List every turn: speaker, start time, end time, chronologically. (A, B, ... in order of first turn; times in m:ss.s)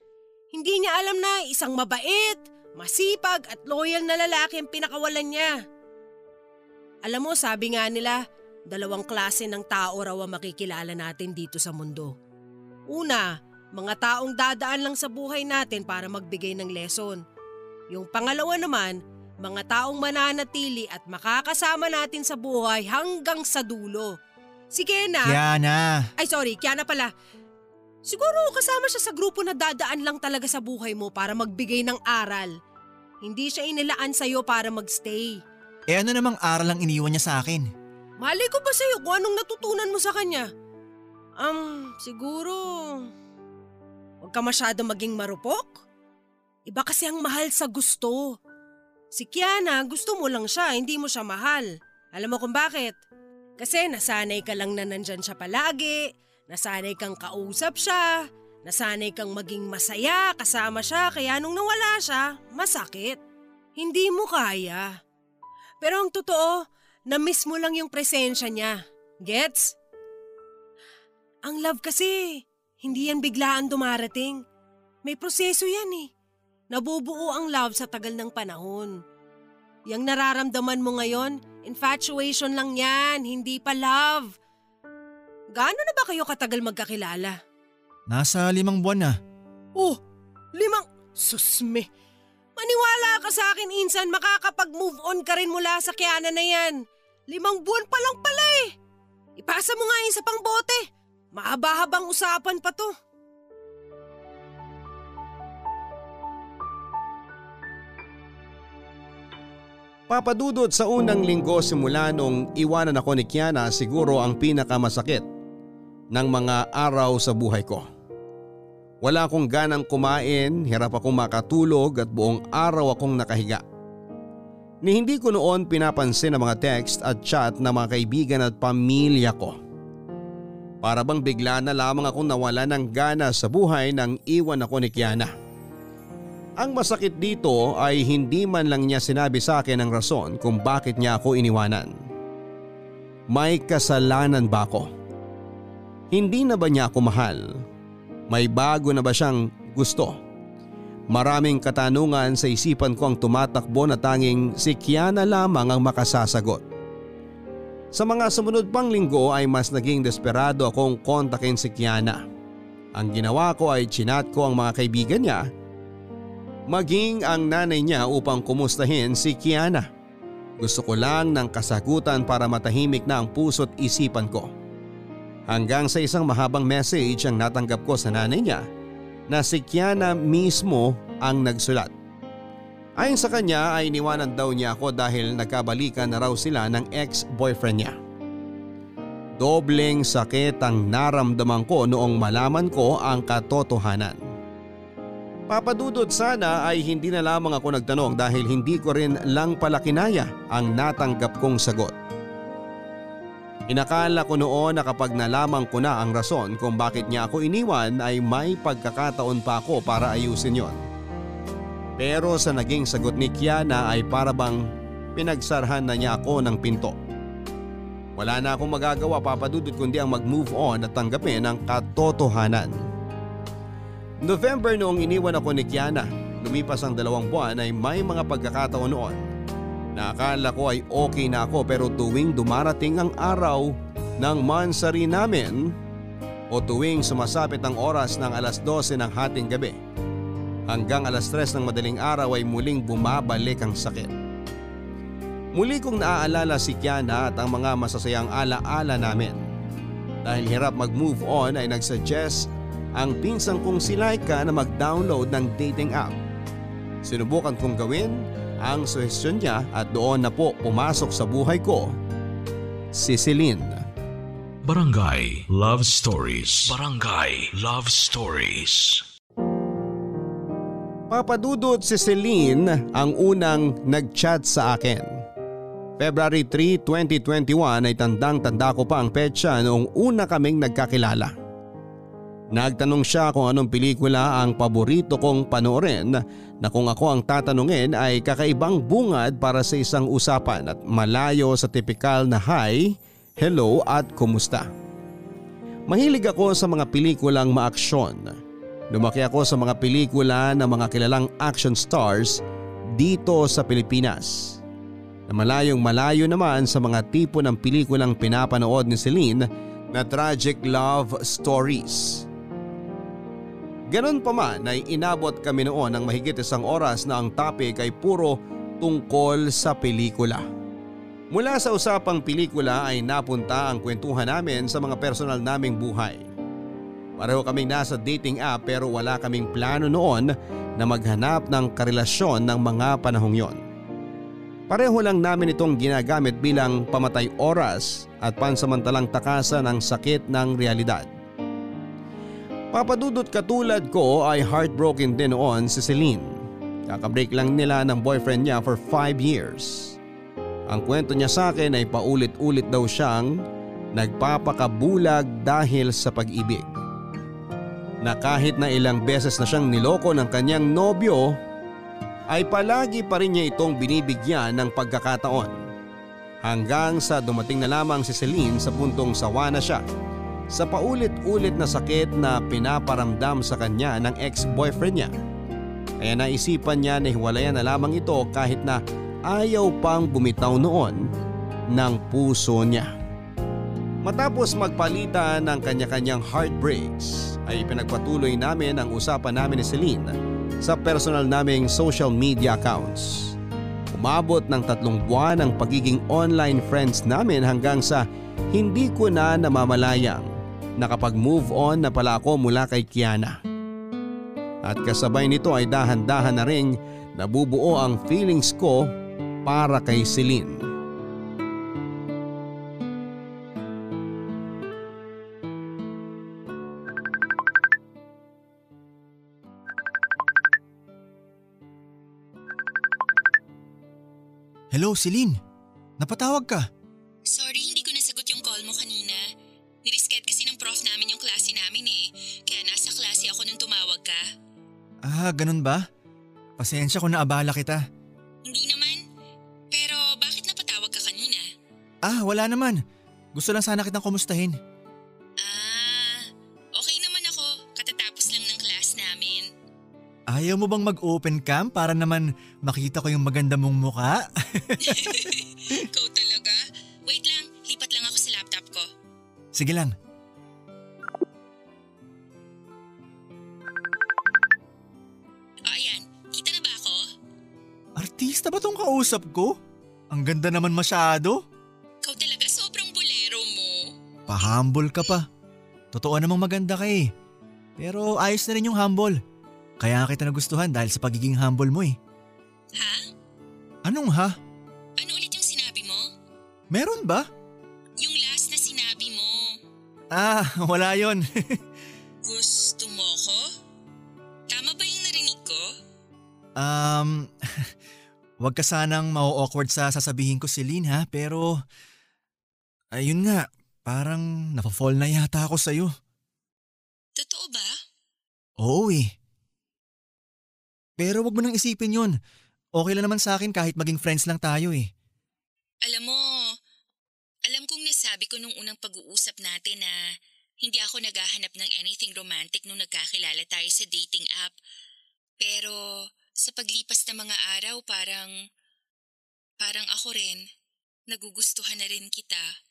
0:00.5-0:05.5 A
0:07.0-0:08.2 A
0:08.7-0:12.1 A
0:12.9-0:17.2 A
0:17.9-0:24.1 A
0:24.7-0:25.4 A
0:25.2-0:26.1 B
0:26.2-0:27.1 A
0:28.0-0:32.5 A
0:33.2-0:35.4 A
0:35.9-0:37.7 B
0:38.2-0:40.5 A
0:41.4-0:43.1 A
0:44.2-0:45.8 A
0:46.7-0:48.4 A
0:49.1-0:53.0 A
0:53.6-0:58.1 A
0:58.6-1:03.2 A
1:03.8-1:04.9 A
1:05.8-1:09.8 A
1:11.4-1:14.4 A
1:15.0-1:16.1 A
1:16.7-1:19.0 A
1:19.9-1:24.3 A
1:25.6-1:27.4 A
1:28.1-1:29.2 B
1:30.6-1:31.9 A
1:32.6-1:38.7 A
1:39.4-1:42.9 A
1:50.1-1:55.2 C
1:56.1-1:57.8 C
1:59.0-2:03.6 C
2:04.8-2:09.6 C
2:10.8-2:15.3 C
2:16.6-2:22.0 C
2:23.3-2:24.9 C
2:26.1-2:27.5 C
2:28.3-2:30.2 C
2:31.1-2:36.6 C
2:37.9-2:42.2 C
2:43.0-2:45.5 C
2:46.7-2:49.9 C
2:50.6-2:54.5 C
2:55.5-2:58.7 C
2:59.3-3:01.9 C
3:03.0-3:08.0 C
3:09.4-3:14.2 C
3:15.5-3:22.0 C
3:23.7-3:30.8 C
3:32.0-3:34.6 C
3:35.1-3:37.0 C
3:38.2-3:42.8 C
3:44.2-3:49.2 C
3:50.0-3:55.7 C
3:56.5-3:59.8 C
4:00.7-4:04.1 C
4:05.5-4:09.4 C
4:10.2-4:16.2 C
4:17.0-4:21.9 C
4:22.9-4:23.8 C
4:24.6-4:29.0 D
4:31.1-4:35.1 C
4:36.0-4:41.3 C
4:42.5-4:54.7 C
4:55.9-4:58.4 C
4:58.9-5:02.4 C
5:03.0-5:04.6 C
5:05.3-5:12.2 C
5:13.9-5:20.4 C
5:21.3-5:26.2 C
5:27.2-5:33.6 C
5:34.7-5:41.1 C
5:42.7-5:46.3 C
5:46.9-5:50.0 C
5:50.7-5:53.4 C
5:53.9-5:56.7 C
5:58.0-6:01.4 C
6:02.3-6:05.6 C
6:06.4-6:09.8 C
6:10.5-6:15.1 C
6:16.0-6:21.0 C
6:21.7-6:22.9 C
6:24.0-6:33.3 C
6:33.9-6:43.4 C
6:44.6-6:48.9 C
6:49.4-6:50.6 C
7:04.7-7:05.4 B
7:06.0-7:06.7 B
7:07.2-7:09.2 E
7:09.8-7:14.2 E
7:15.0-7:15.9 B
7:16.6-7:17.8 B
7:18.4-7:19.0 E
7:19.7-7:21.4 E
7:22.0-7:22.8 B
7:23.3-7:24.6 B
7:25.4-7:29.5 E
7:30.3-7:35.8 B
7:34.8-7:38.9 E
7:39.5-7:39.9 B
7:45.6-7:47.0 E
7:48.0-7:49.6 B
7:50.1-7:51.4 B
7:52.0-7:53.9 E
7:54.3-7:55.3 B
7:55.9-7:57.1 B
7:57.8-7:59.2 B
7:59.8-8:02.0 B
8:02.8-8:03.1 E
8:03.8-8:04.4 B
8:05.0-8:06.1 E
8:06.7-8:07.3 B
8:08.0-8:09.6 E
8:10.1-8:11.6 B
8:12.2-8:13.4 E
8:14.5-8:15.7 E
8:16.6-8:17.7 B
8:18.4-8:21.6 B
8:22.9-8:25.9 B
8:27.2-8:27.8 E
8:28.6-8:29.1 B
8:31.0-8:32.2 B
8:32.8-8:34.9 B
8:35.8-8:36.5 E
8:37.4-8:40.0 E
8:40.6-8:44.6 E
8:45.4-8:48.4 E
8:49.6-8:50.4 E
8:51.1-8:52.5 E